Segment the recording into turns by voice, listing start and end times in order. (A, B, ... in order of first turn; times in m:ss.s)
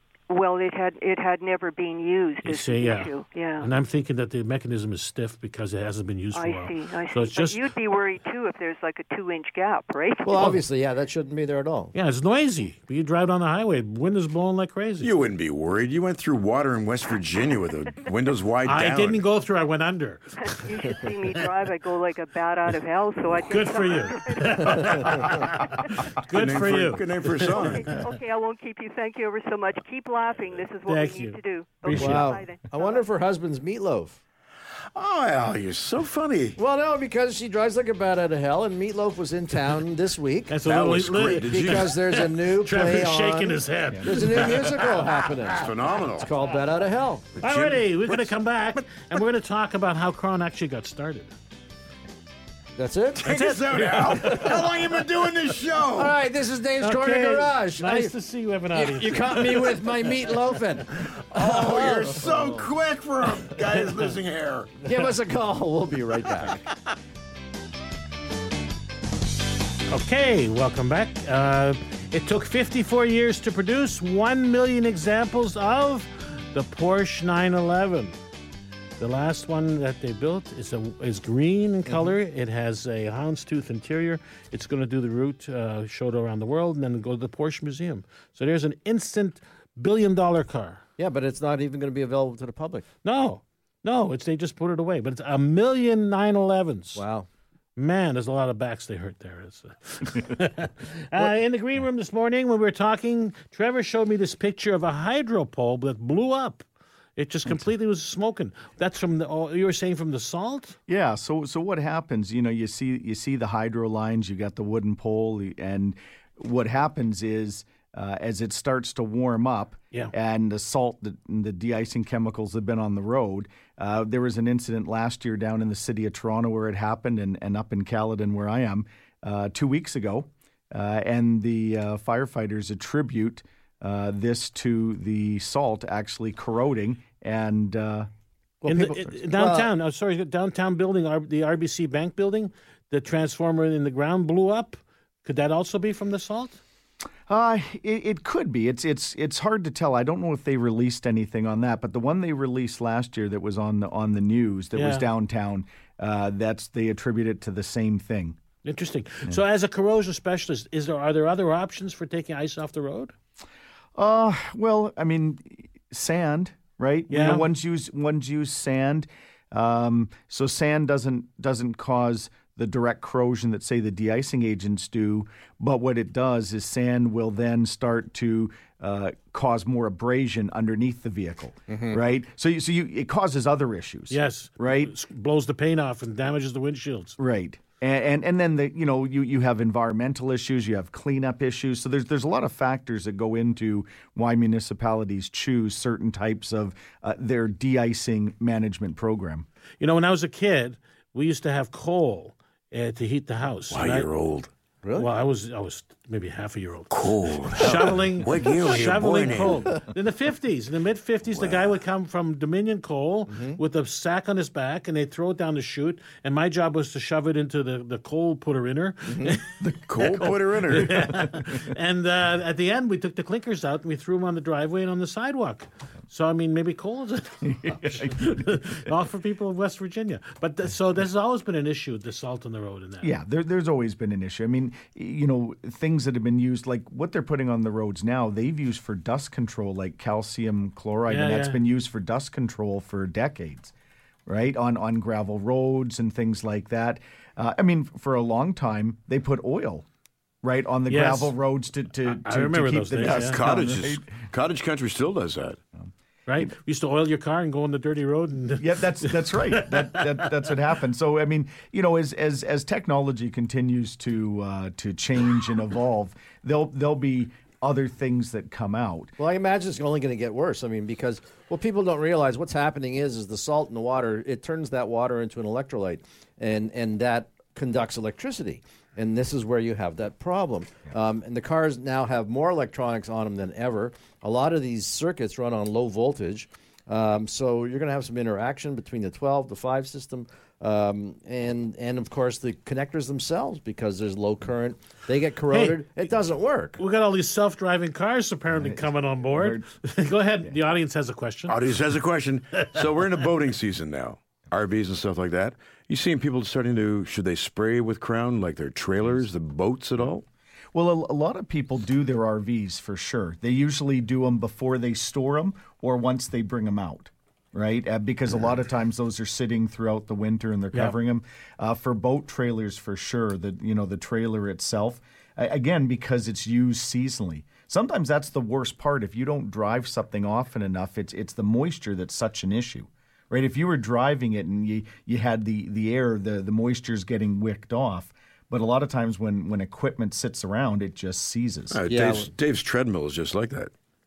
0:00.3-0:03.7 A
0:02.4-0:07.6 B
0:06.3-0:10.6 A
0:10.2-0:11.9 C
0:11.9-0:15.1 B
0:15.0-0:19.3 D
0:18.7-0:20.7 B
0:20.4-0:26.0 A
0:23.5-0:28.0 B
0:26.3-0:27.9 D
0:27.4-0:33.0 A
0:30.9-0:32.3 B
0:31.9-0:34.2 C
0:35.0-0:36.6 D
0:36.6-0:40.6 C
0:40.5-0:45.0 B
0:40.6-0:42.0 D
0:41.4-0:47.3 C
0:45.6-0:46.3 D
0:47.4-0:48.3 D
0:47.4-0:51.3 B
0:52.8-0:53.4 C
0:53.2-0:56.2 D
0:53.2-0:54.6 B
0:54.2-0:54.6 C
0:55.9-0:58.1 C
0:56.8-1:00.3 B
0:58.7-1:02.7 C
1:01.3-1:04.8 D
1:04.8-1:06.6 C
1:09.9-1:18.2 B
1:19.0-1:30.8 B
1:21.9-1:22.1 C
1:31.0-1:32.9 C
1:33.0-1:37.0 B
1:37.0-1:37.3 C
1:37.8-1:46.6 B
1:47.2-1:50.8 B
1:50.9-2:18.1 E
2:18.6-2:19.7 C
2:18.7-2:26.6 B
2:27.3-2:38.4 E
2:34.8-2:35.1 B
2:38.6-2:43.1 B
2:44.0-3:04.9 E
2:47.1-2:47.5 B
3:01.7-3:02.0 C
3:04.1-3:07.2 B
3:07.2-3:19.5 E
3:19.8-3:24.1 B
3:23.7-3:24.5 D
3:24.8-3:25.1 C
3:25.0-3:53.1 B
3:26.9-3:29.7 D
3:31.3-3:31.7 D
3:33.3-3:33.6 C
3:39.1-3:39.4 C
3:39.6-3:41.3 D
3:41.2-3:41.5 E
3:47.5-3:48.6 E
3:53.0-4:03.7 E
4:01.1-4:01.6 B
4:04.3-4:09.9 E
4:10.4-4:14.1 E
4:10.9-4:11.3 B
4:12.2-4:13.4 B
4:13.0-4:15.6 D
4:15.8-4:16.5 E
4:16.3-4:20.2 B
4:18.6-4:29.2 E
4:29.2-4:56.8 C
4:55.5-4:55.8 B
4:56.8-5:01.6 B
4:58.6-4:59.7 E
5:01.5-5:10.2 D
5:10.7-5:41.8 E
5:41.7-5:43.7 D
5:41.9-5:42.3 C